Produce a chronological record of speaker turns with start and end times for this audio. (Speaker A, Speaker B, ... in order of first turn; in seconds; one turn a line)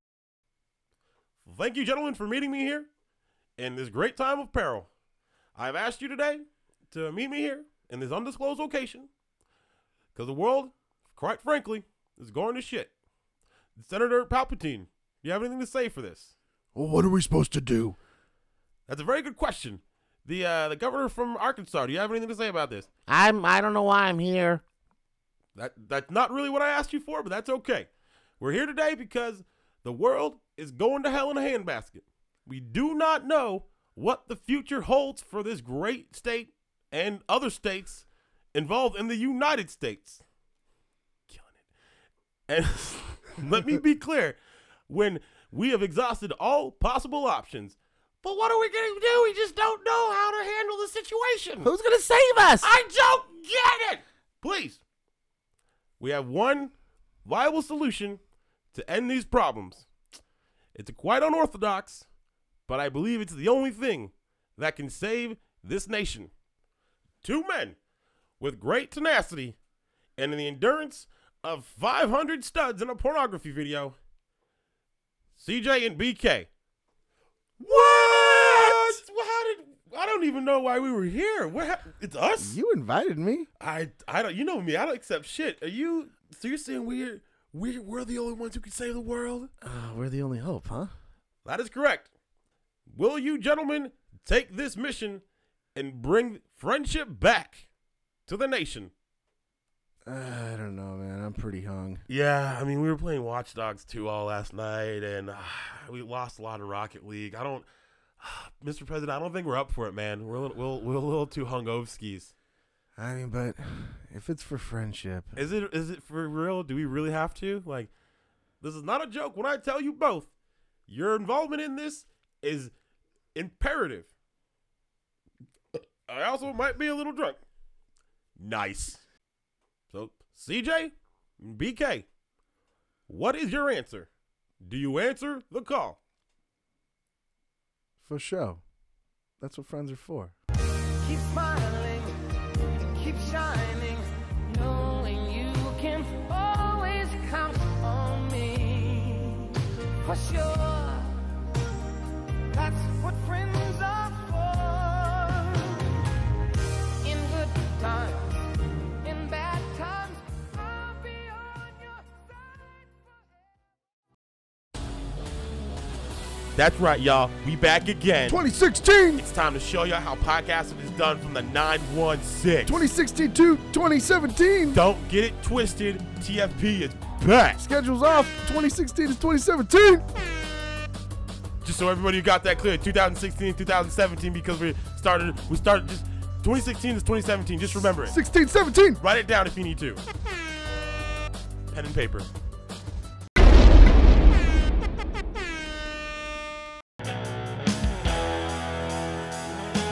Speaker A: 1.4-2.9
Speaker A: 3.6-4.9
Speaker A: 5.5-9.1
Speaker A: 10.1-12.9
Speaker A: 13.8-16.3
Speaker B: 16.7-18.0
Speaker A: 18.9-22.9
Speaker C: 23.1-24.6
Speaker A: 25.6-27.9
Speaker A: 28.4-40.2
Speaker A: 41.3-41.6
Speaker A: 42.5-51.7
Speaker C: 51.6-52.7
Speaker A: 52.6-54.8
Speaker A: 56.0-56.7
Speaker A: 57.2-58.2
Speaker A: 58.7-59.9
Speaker A: 60.7-62.0
Speaker A: 62.7-66.3
Speaker A: 67.2-67.8
Speaker A: 68.4-69.6
Speaker A: 70.2-74.0
Speaker A: 75.3-76.5
Speaker A: 77.6-82.5
Speaker B: 77.8-79.0
Speaker B: 82.4-83.5
Speaker A: 83.6-89.5
Speaker B: 89.6-90.9
Speaker A: 91.4-92.1
Speaker A: 92.9-95.2
Speaker A: 95.7-97.7
Speaker A: 98.3-98.9
Speaker B: 100.0-102.0
Speaker A: 102.1-107.7
Speaker A: 108.2-112.3
Speaker B: 113.0-115.4
Speaker A: 115.3-117.9
Speaker A: 118.6-120.3
Speaker A: 120.9-122.7
Speaker A: 123.3-124.1
Speaker A: 125.7-127.4
Speaker A: 128.4-129.0
Speaker A: 129.9-132.1
Speaker A: 133.1-134.1
Speaker A: 134.6-136.0
Speaker B: 138.0-138.6
Speaker B: 139.4-140.3
Speaker D: 141.0-142.2
Speaker D: 142.8-151.3
Speaker D: 152.5-155.9
Speaker D: 157.0-162.8
Speaker A: 166.5-168.4
Speaker B: 168.3-169.2
Speaker A: 169.2-172.7
Speaker B: 172.6-174.8
Speaker A: 174.7-177.6
Speaker B: 177.6-180.0
Speaker A: 181.6-188.1
Speaker B: 188.1-189.0
Speaker A: 189.0-190.0
Speaker A: 191.7-192.3